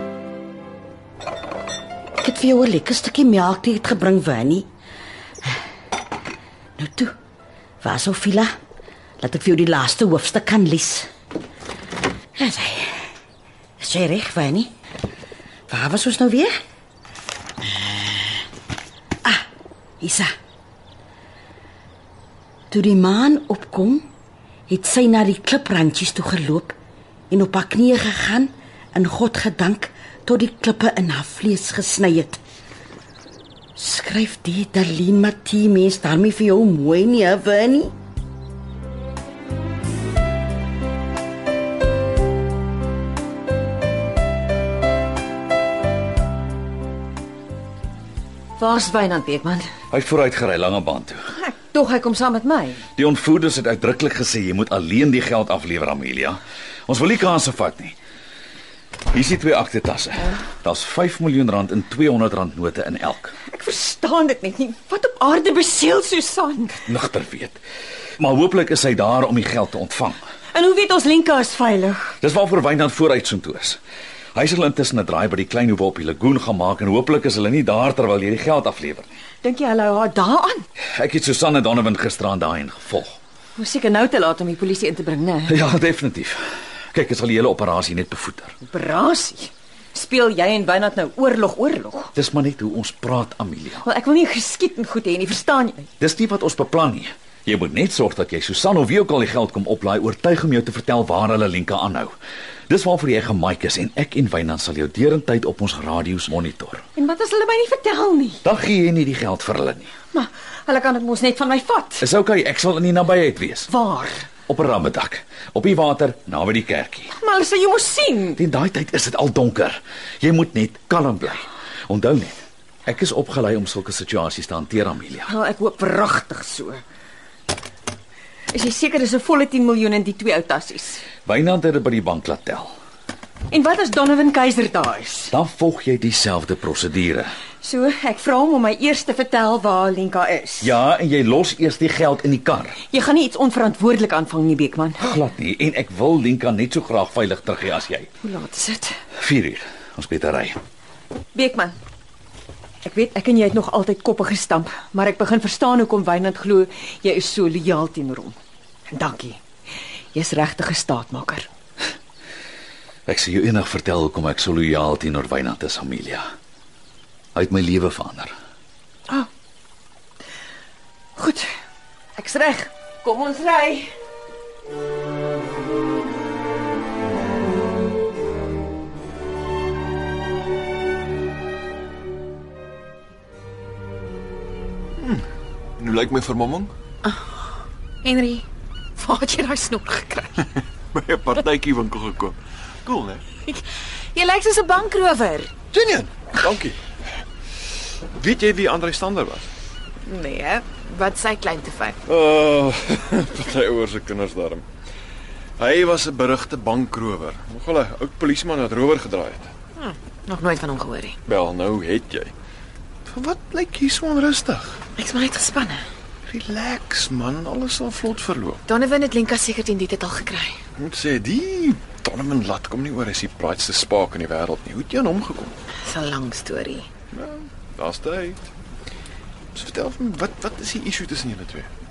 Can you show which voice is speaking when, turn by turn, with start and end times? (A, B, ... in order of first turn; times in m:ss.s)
0:02.2-0:04.7 A
0:06.8-0:07.1 A
0:07.8-0:08.5 A
0:09.2-0:11.1 A
0:12.4-0:13.1 A
0:13.8-0:14.7 A
0:15.7-0:16.6 A
0:20.0-0:20.3 A
0:22.7-0:24.1 A
0:24.7-0:26.8 A
0:27.3-0:32.4 A
0:33.8-0:37.9 A
0:48.6-0:49.6 B
0:49.9-0:51.2 C
0:51.3-0:52.8 B
0:53.0-0:58.0 C
0:59.1-1:03.3 C
1:03.4-1:06.8 B
1:06.8-1:07.6 C
1:08.2-1:10.2 C
1:10.5-1:12.1 B
1:12.2-1:13.8 C
1:14.3-1:19.1 C
1:19.4-1:20.6 B
1:20.9-1:23.2 C
1:23.6-1:25.6 B
1:25.5-1:26.4 C
1:26.9-1:28.5 C
1:28.6-1:32.1 B
1:32.1-1:33.8 C
1:33.8-1:35.9 B
1:36.0-1:42.1 C
1:42.7-1:46.8 C
1:47.0-1:48.4 B
1:48.4-1:49.9 C
1:50.1-1:52.0 B
1:52.0-1:53.7 C
1:53.7-1:54.3 B
1:54.5-1:57.1 C
1:57.1-1:58.4 B
1:58.4-2:05.3 C
2:05.2-2:06.8 B
2:08.5-2:11.0 B
2:11.2-2:12.7 C
2:13.5-2:15.3 B
2:15.3-2:17.3 C
2:17.6-2:20.7 B
2:20.6-2:22.8 C
2:22.9-2:25.1 B
2:25.0-2:28.1 C
2:28.2-2:29.0 B
2:29.2-2:30.6 C
2:31.3-2:31.8 B
2:32.8-2:38.4 B
2:38.9-2:39.4 B
2:40.1-2:41.5 B
2:43.1-2:46.2 C
2:47.3-2:48.3 C
2:51.2-2:51.5 B
2:52.2-2:53.9 B
3:05.8-3:06.7 D
3:07.0-3:07.5 E
3:08.0-3:08.4 E
3:09.0-3:10.5 E
3:10.9-3:13.2 D
3:13.4-3:15.5 E
3:15.7-3:16.8 D
3:18.2-3:19.5 D
3:20.0-3:22.0 E
3:22.1-3:24.6 D
3:25.6-3:29.5 D
3:29.8-3:31.2 E
3:31.3-3:32.3 D
3:33.1-3:34.8 D
3:35.0-3:35.9 E
3:36.3-3:38.6 D
3:38.7-3:40.6 E
3:40.8-3:45.5 D
3:45.8-3:46.9 E
3:47.1-3:48.5 D
3:49.5-3:51.7 D